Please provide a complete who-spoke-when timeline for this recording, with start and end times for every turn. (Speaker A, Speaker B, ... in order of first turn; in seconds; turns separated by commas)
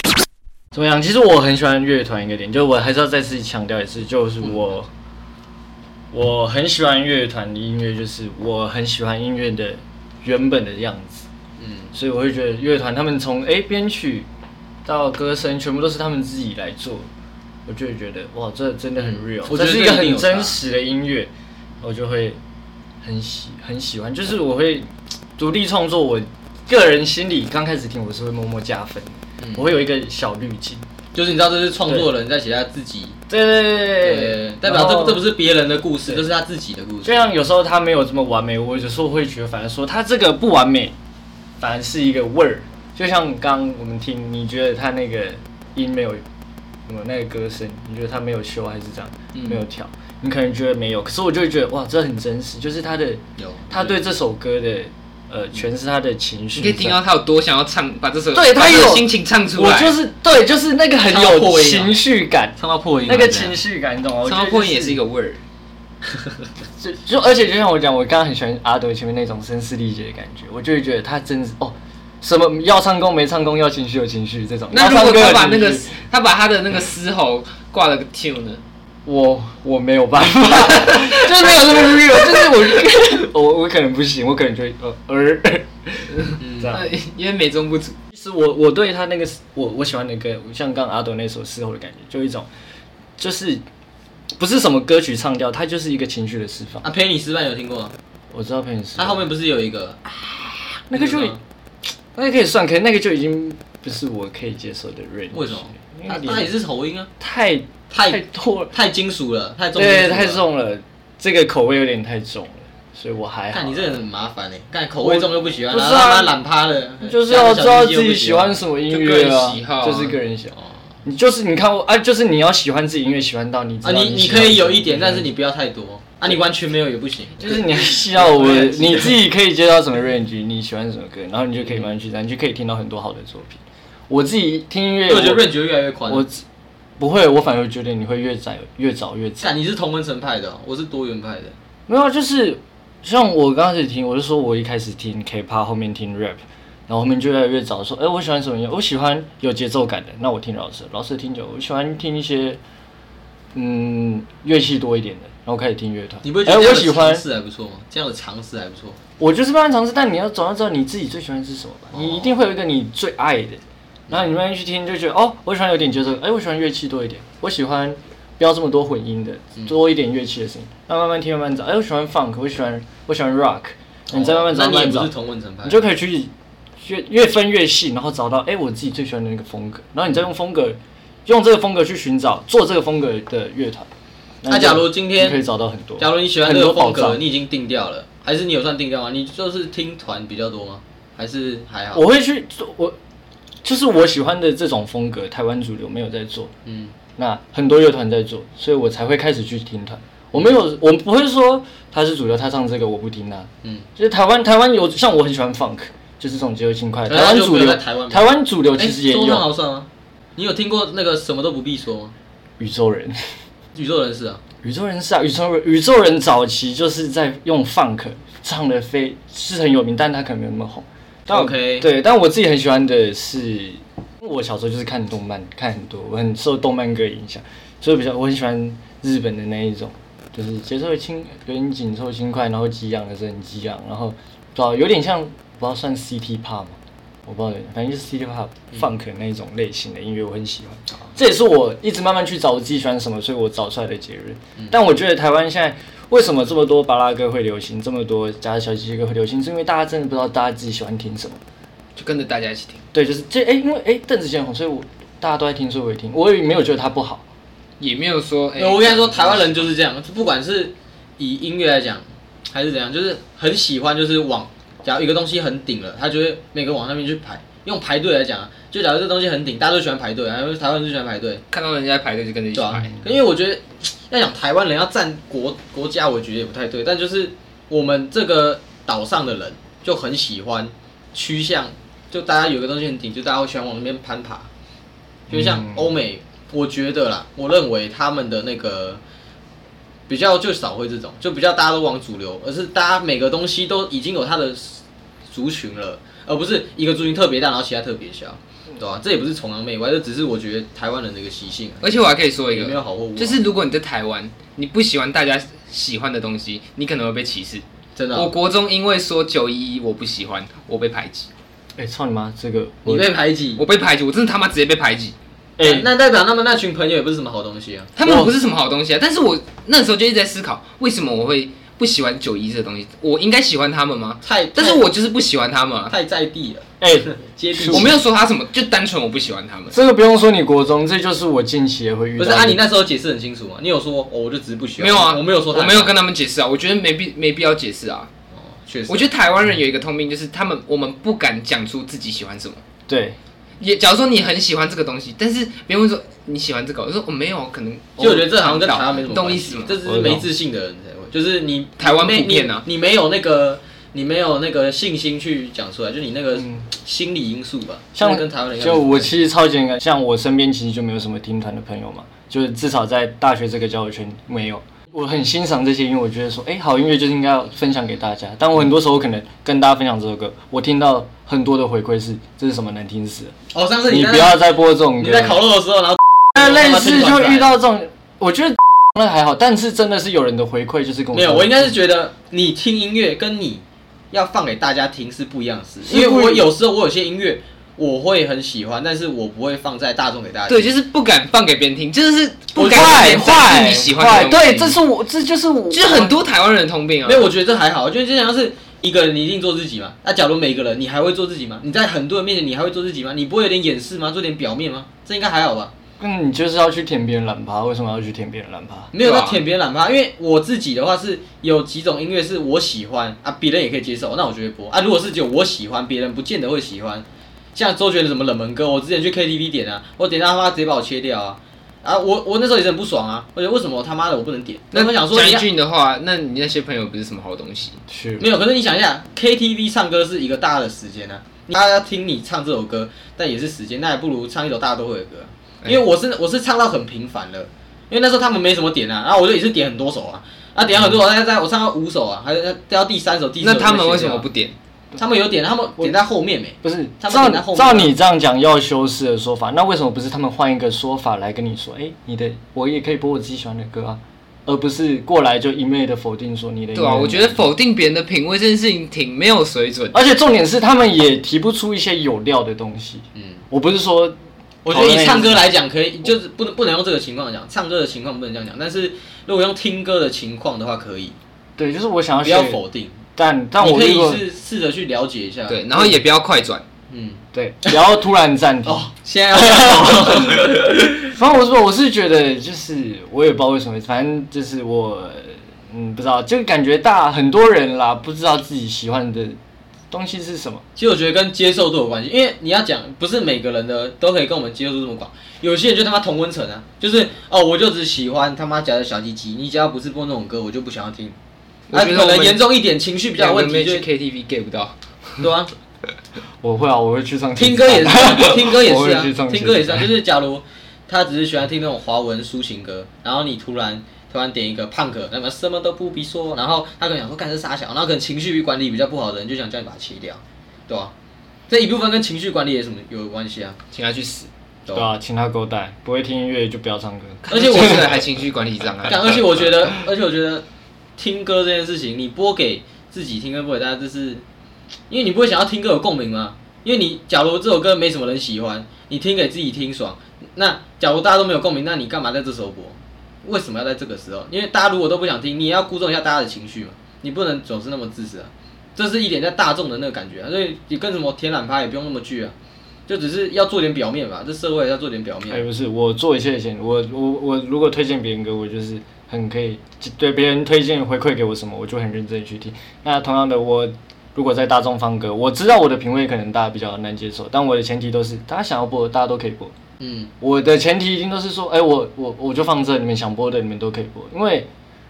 Speaker A: 0.7-4.9, Speaker A: 6.1-11.3, Speaker B: 11.6-11.9, Speaker A: 11.9-14.3, Speaker A: 14.8-17.1, Speaker A: 17.7-21.3, Speaker B: 19.0-20.6, Speaker A: 21.8-22.4, Speaker A: 23.0-30.8, Speaker B: 29.4-29.7, Speaker B: 31.1-33.2, Speaker A: 31.8-32.1, Speaker A: 33.3-35.2, Speaker B: 34.0-37.3, Speaker A: 37.0-41.0, Speaker A: 41.6-46.2, Speaker A: 46.9-57.0, Speaker B: 53.4-54.0, Speaker C: 56.5-60.0, Speaker A: 58.3-62.5, Speaker B: 61.0-62.0, Speaker B: 62.6-63.6, Speaker A: 63.0-65.0, Speaker C: 64.2-65.4, Speaker A: 66.8-75.9, Speaker C: 74.7-78.6, Speaker A: 79.0-86.9, Speaker C: 80.8-82.3, Speaker B: 86.4-86.8, Speaker C: 86.7-87.9, Speaker A: 88.1-92.5, Speaker A: 93.2-93.6, Speaker A: 94.4-96.8, Speaker B: 96.8-97.9, Speaker A: 98.3-99.3, Speaker B: 99.0-100.2, Speaker A: 100.9-101.4, Speaker B: 100.9-101.4, Speaker A: 102.1-106.5, Speaker B: 105.3-107.1, Speaker A: 107.2-108.7, Speaker B: 107.9-110.4, Speaker A: 109.7-114.0, Speaker B: 113.5-118.6, Speaker A: 115.0-116.3, Speaker A: 117.0-125.3, Speaker C: 118.9-120.2, Speaker B: 123.8-129.2, Speaker A: 127.4-135.5, Speaker B: 135.1-136.2, Speaker A: 136.1-136.4, Speaker A: 137.0-139.5, Speaker B: 139.4-141.5, Speaker A: 141.9-152.6, Speaker A: 153.5-157.2, Speaker B: 156.2-159.0, Speaker A: 159.2-175.1, Speaker B: 161.9-162.3, Speaker B: 174.1-175.8, Speaker A: 175.6-183.9, Speaker A: 184.4-187.2, Speaker B: 184.5-185.4, Speaker B: 186.0-192.0, Speaker A: 191.9-192.9, Speaker A: 193.6-196.5, Speaker B: 196.7-196.9, Speaker A: 197.2-209.4, Speaker B: 207.1-212.1, Speaker A: 212.6-213.3, Speaker B: 213.7-214.4, Speaker A: 214.6-251.4, Speaker B: 221.3-221.9, Speaker C: 251.9-252.8, Speaker A: 252.9-257.2, Speaker C: 257.8-259.7, Speaker B: 258.6-271.4, Speaker C: 271.5-272.9, Speaker B: 272.5-284.5, Speaker A: 285.3-285.9, Speaker B: 285.3-289.0, Speaker B: 290.1-303.4, Speaker C: 301.8-311.3, Speaker B: 307.9-308.3, Speaker A: 311.8-313.1, Speaker B: 312.9-313.6, Speaker C: 313.6-315.1, Speaker A: 315.6-315.9, Speaker B: 315.6-317.9, Speaker C: 318.0-325.9, Speaker A: 318.0-318.3, Speaker B: 324.2-324.9, Speaker B: 325.9-328.0, Speaker A: 326.8-327.9, Speaker C: 327.7-329.7, Speaker A: 329.7-332.6, Speaker B: 332.2-336.0, Speaker C: 334.8-338.1, Speaker B: 338.4-339.1, Speaker C: 338.9-342.6, Speaker A: 342.9-343.2, Speaker C: 343.6-349.8, Speaker B: 348.0-359.1, Speaker A: 349.8-350.3, Speaker C: 351.8-352.6, Speaker A: 356.4-356.6, Speaker A: 358.0-373.3, Speaker B: 373.5-377.6, Speaker A: 373.9-375.4, Speaker A: 376.3-381.7, Speaker B: 381.1-390.7, Speaker A: 385.8-386.5, Speaker C: 390.5-394.8, Speaker B: 392.5-393.7, Speaker A: 392.5-396.1, Speaker C: 395.7-397.3, Speaker B: 397.0-405.7, Speaker A: 406.0-408.9, Speaker B: 408.9-425.5, Speaker C: 409.0-409.4, Speaker C: 424.7-427.8, Speaker A: 427.9-428.3, Speaker B: 428.2-444.3, Speaker C: 443.4-444.6, Speaker B: 444.9-447.9, Speaker A: 446.6-457.5, Speaker C: 456.7-460.0, Speaker A: 459.9-464.1, Speaker B: 463.1-463.4, Speaker B: 464.6-471.1, Speaker A: 464.7-465.4, Speaker A: 471.6-472.6, Speaker B: 472.2-473.0, Speaker A: 473.1-474.2, Speaker B: 473.6-476.0, Speaker C: 475.5-476.6, Speaker B: 476.9-477.8, Speaker A: 477.3-489.4, Speaker B: 478.6-481.1, Speaker A: 489.9-490.6, Speaker B: 490.8-501.1, Speaker C: 501.7-502.4, Speaker B: 501.7-503.9, Speaker C: 503.1-504.8, Speaker B: 505.2-505.5, Speaker A: 506.4-509.9, Speaker B: 507.4-520.9, Speaker B: 521.5-523.6, Speaker C: 523.7-524.3, Speaker B: 524.6-524.9, Speaker A: 524.7-527.9, Speaker C: 527.3-529.7, Speaker B: 527.3-528.0, Speaker B: 528.8-530.4, Speaker B: 531.0-534.2, Speaker B: 534.9-552.3, Speaker B: 552.9-555.5, Speaker A: 555.3-569.5, Speaker B: 569.8-570.1, Speaker A: 570.2-574.5